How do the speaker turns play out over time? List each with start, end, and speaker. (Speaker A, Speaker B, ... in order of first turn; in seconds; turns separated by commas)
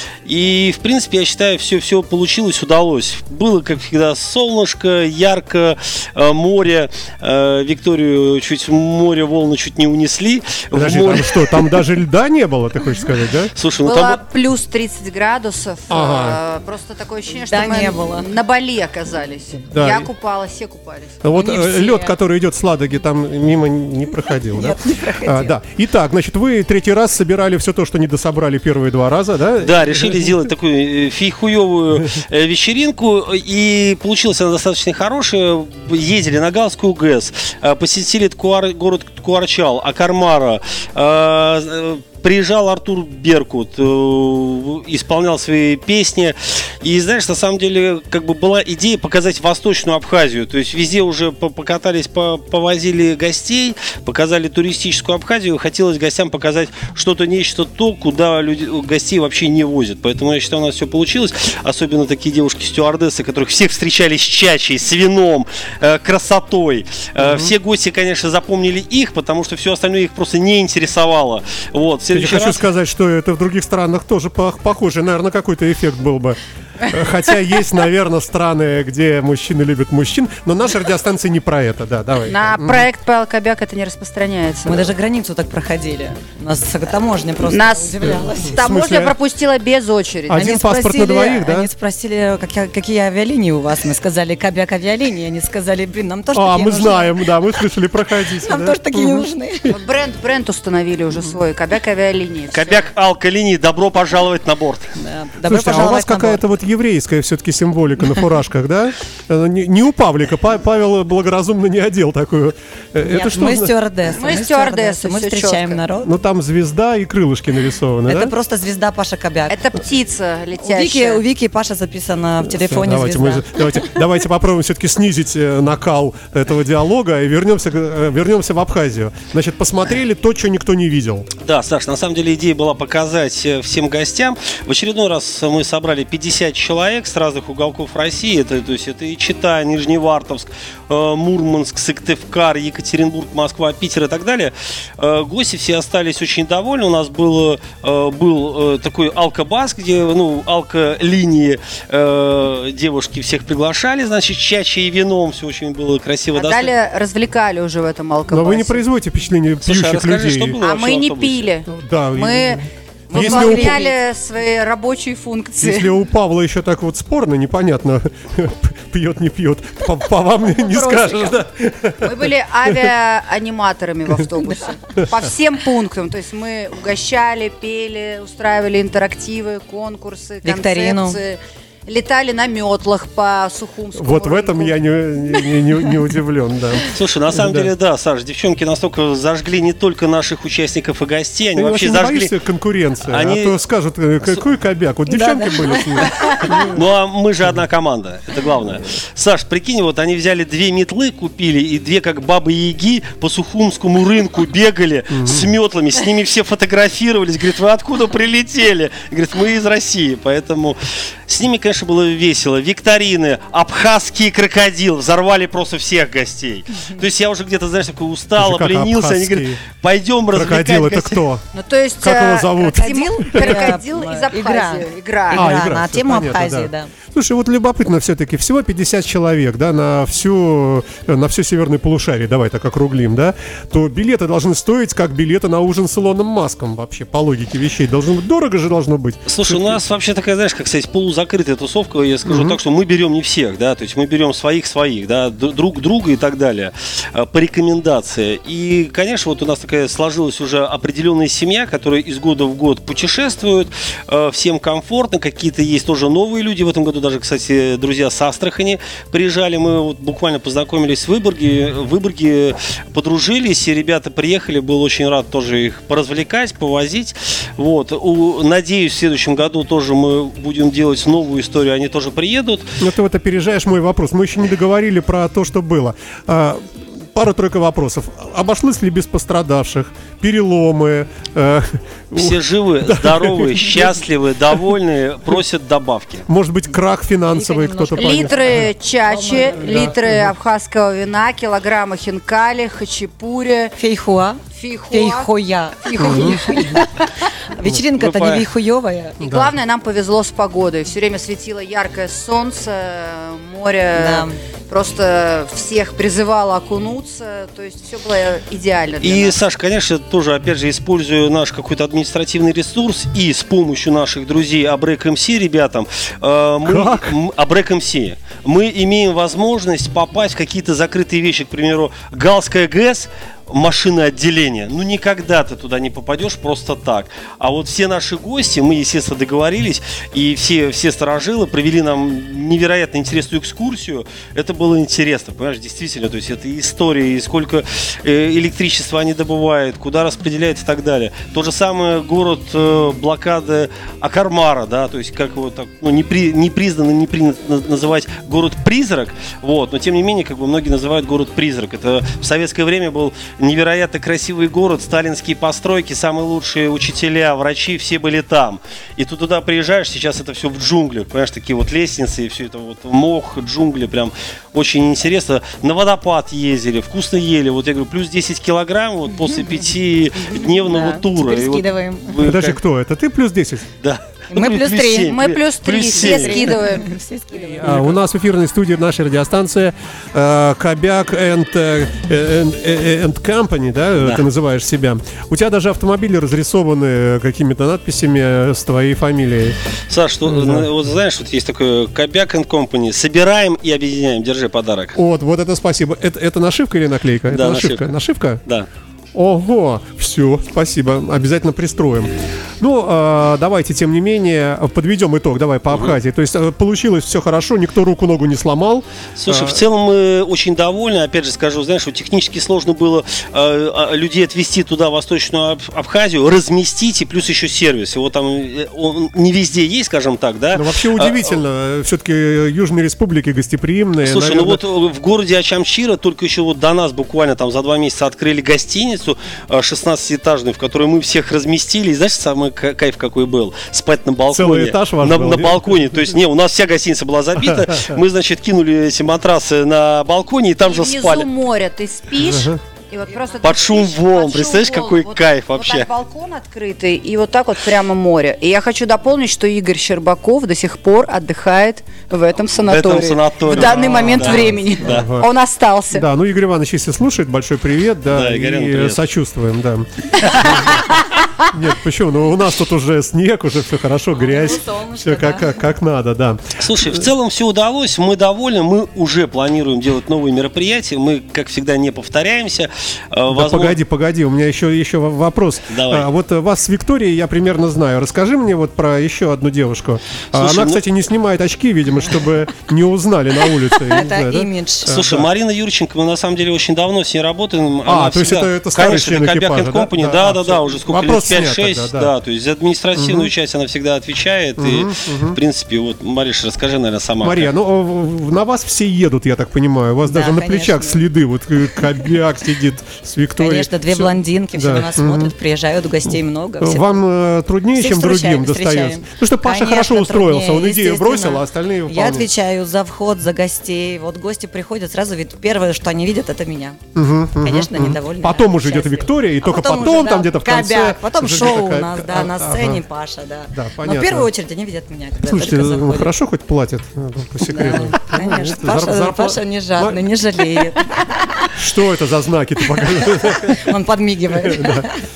Speaker A: 0.2-11.8, Speaker B: 10.7-13.5, Speaker A: 13.5-14.2, Speaker C: 13.8-21.2, Speaker B: 15.9-16.4, Speaker D: 17.4-18.3, Speaker B: 19.7-20.1, Speaker B: 21.2-30.5, Speaker D: 21.3-22.2, Speaker D: 24.5-25.6, Speaker A: 29.6-72.6, Speaker B: 67.2-67.5, Speaker B: 72.1-82.8, Speaker C: 82.3-84.9, Speaker D: 84.7-88.6, Speaker C: 87.5-90.6, Speaker B: 88.0-89.1, Speaker B: 90.3-91.7, Speaker D: 90.3-97.6, Speaker B: 96.3-99.7, Speaker D: 98.4-99.7, Speaker C: 99.7-102.9, Speaker A: 102.5-105.0, Speaker D: 105.0-106.4, Speaker B: 105.4-113.7, Speaker D: 113.0-116.1, Speaker C: 114.1-115.8, Speaker B: 116.0-118.3, Speaker D: 118.1-119.6, Speaker C: 119.5-121.2, Speaker D: 120.6-123.8, Speaker B: 122.4-131.3, Speaker A: 131.4-156.7, Speaker C: 156.3-158.8, Speaker B: 158.3-160.6, Speaker A: 159.6-161.5, Speaker C: 160.6-165.9, Speaker B: 161.7-163.8, Speaker D: 163.1-163.9, Speaker B: 165.6-172.9, Speaker C: 170.5-171.3, Speaker C: 172.0-184.8, Speaker D: 180.4-181.2, Speaker B: 183.9-187.7, Speaker A: 186.9-192.3, Speaker B: 191.6-196.8, Speaker A: 193.1-193.6, Speaker D: 195.1-196.6, Speaker A: 196.4-221.2, Speaker B: 205.1-205.5, Speaker B: 218.4-219.6, Speaker B: 220.3-221.4, Speaker C: 221.5-225.5, Speaker B: 222.0-223.8, Speaker D: 222.8-226.9, Speaker B: 225.3-239.8, Speaker A: 239.3-272.8, Speaker B: 242.2-242.6, Speaker B: 272.8-283.9, Speaker A: 282.1-286.2, Speaker B: 286.3-288.7, Speaker D: 287.3-289.9, Speaker C: 287.9-293.7, Speaker B: 289.6-290.3, Speaker D: 293.8-299.2, Speaker C: 294.5-295.3, Speaker C: 295.8-296.8, Speaker B: 296.0-296.4, Speaker A: 298.0-298.4, Speaker B: 299.2-299.5, Speaker C: 299.2-309.4, Speaker D: 303.9-304.4, Speaker A: 309.0-372.6, Speaker B: 316.6-317.1, Speaker D: 370.3-372.2, Speaker B: 372.2-373.6, Speaker A: 373.8-376.6, Speaker D: 374.3-375.1, Speaker C: 375.1-376.9, Speaker D: 375.9-378.0, Speaker B: 377.4-389.6, Speaker A: 389.9-395.0, Speaker B: 390.2-390.7, Speaker B: 394.9-398.4, Speaker A: 397.3-397.8, Speaker B: 399.1-409.6, Speaker A: 409.2-421.3, Speaker B: 420.5-424.6, Speaker A: 424.0-441.3, Speaker B: 434.3-435.9, Speaker B: 437.4-438.0, Speaker C: 440.6-456.0, Speaker B: 442.2-442.6, Speaker A: 443.4-445.9, Speaker A: 452.6-455.1, Speaker B: 453.5-455.3, Speaker B: 455.9-460.9, Speaker A: 458.1-459.0, Speaker A: 460.2-460.6, Speaker B: 461.5-467.1, Speaker D: 464.1-465.6, Speaker A: 466.6-473.8, Speaker B: 473.3-485.3, Speaker A: 475.7-476.1, Speaker A: 480.3-480.8, Speaker D: 483.7-484.9, Speaker A: 484.9-497.5, Speaker B: 487.9-492.1, Speaker B: 493.0-493.3, Speaker B: 494.6-495.4, Speaker B: 497.2-505.3, Speaker D: 500.0-501.0, Speaker D: 503.4-507.0, Speaker B: 506.6-512.3, Speaker D: 507.7-516.8, Speaker B: 516.9-522.8, Speaker D: 517.4-526.1, Speaker B: 523.5-524.3, Speaker B: 525.2-530.0, Speaker D: 527.4-531.5, Speaker B: 531.5-533.7, Speaker D: 533.3-535.0, Speaker B: 534.3-534.9